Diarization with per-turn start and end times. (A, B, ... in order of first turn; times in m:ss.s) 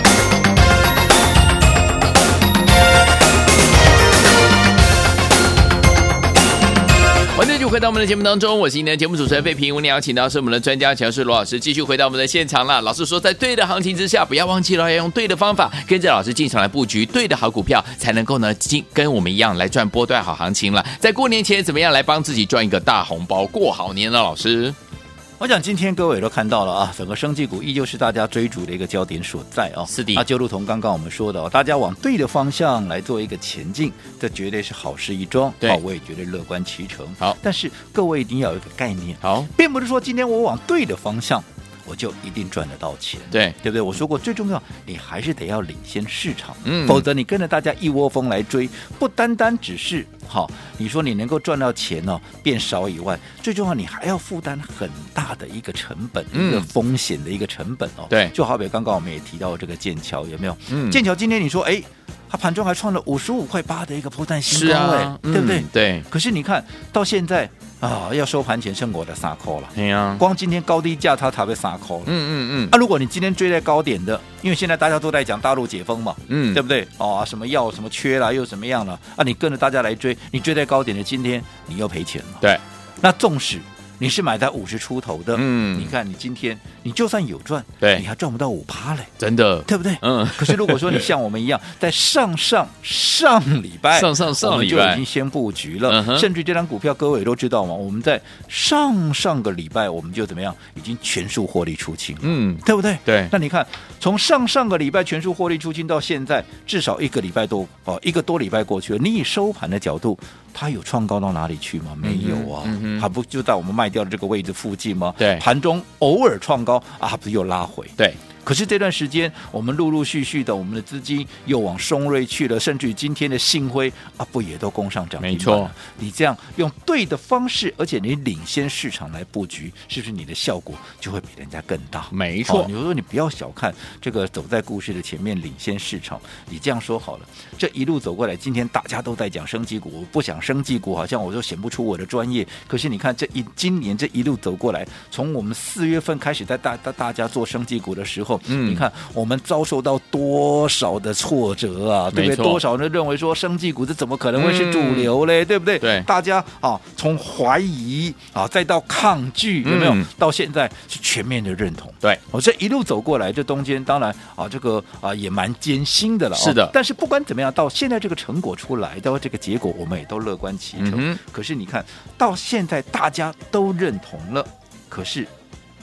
0:07.3-0:24.8 A
0:25.4-1:12.1 B
0:29.9-0:30.2 A
0:39.2-0:39.5 A
0:43.3-0:43.6 A
0:46.6-0:47.0 A
0:56.3-0:56.7 A
1:00.7-1:01.0 A
1:04.5-1:06.0 A
1:09.7-1:10.2 A
1:12.0-1:12.7 A
1:12.7-1:22.5 B
1:16.3-1:16.6 A
1:23.0-1:29.1 B
1:25.3-1:25.9 A
1:29.2-1:31.1 A
1:29.6-2:55.3 B
1:33.9-1:35.0 A
1:35.9-1:36.3 A
1:42.2-1:43.3 A
1:52.0-1:53.0 A
1:55.2-1:55.4 A
2:05.2-2:05.7 A
2:12.1-2:12.7 A
2:28.5-2:28.8 A
2:32.1-2:32.6 A
2:34.4-2:35.1 A
2:35.8-2:36.1 A
2:39.6-2:40.1 A
2:46.4-2:46.7 A
2:50.8-2:51.2 A